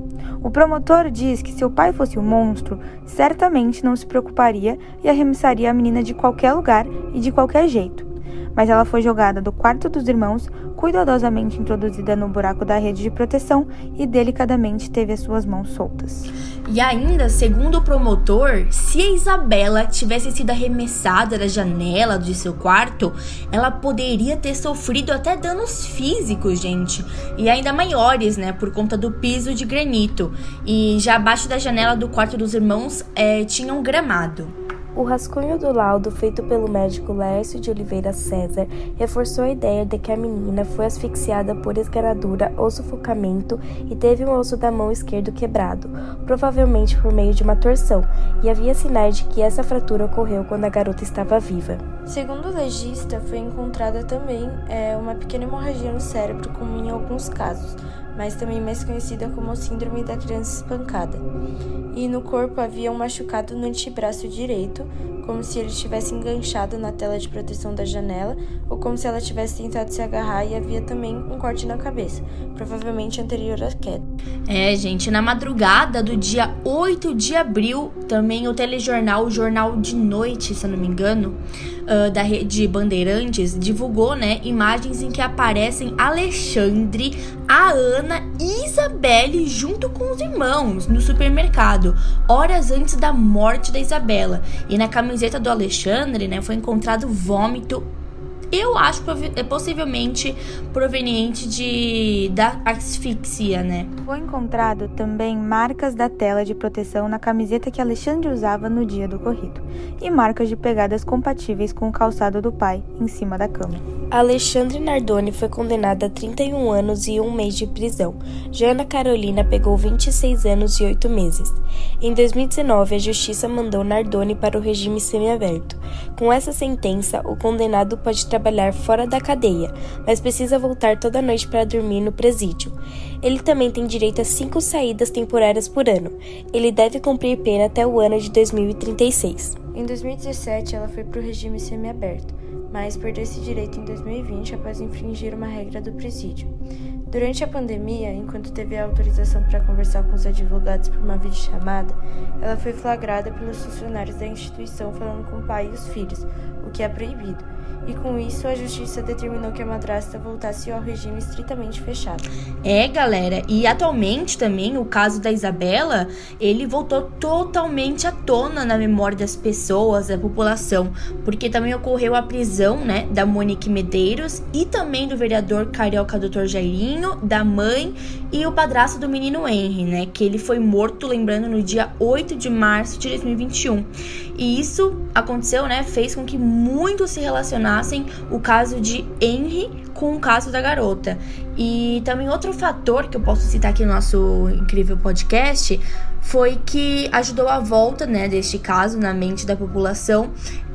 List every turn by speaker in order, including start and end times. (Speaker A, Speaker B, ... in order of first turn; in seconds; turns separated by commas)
Speaker A: 0.4-16.3, Speaker B: 16.7-34.5, Speaker C: 35.0-51.8, Speaker D: 52.1-61.2, Speaker D: 61.9-74.0, Speaker B: 74.5-97.9, Speaker B: 98.5-103.9, Speaker A: 104.1-113.8, Speaker C: 114.1-139.6, Speaker D: 139.7-146.5, Speaker D: 147.1-162.2, Speaker B: 162.6-200.3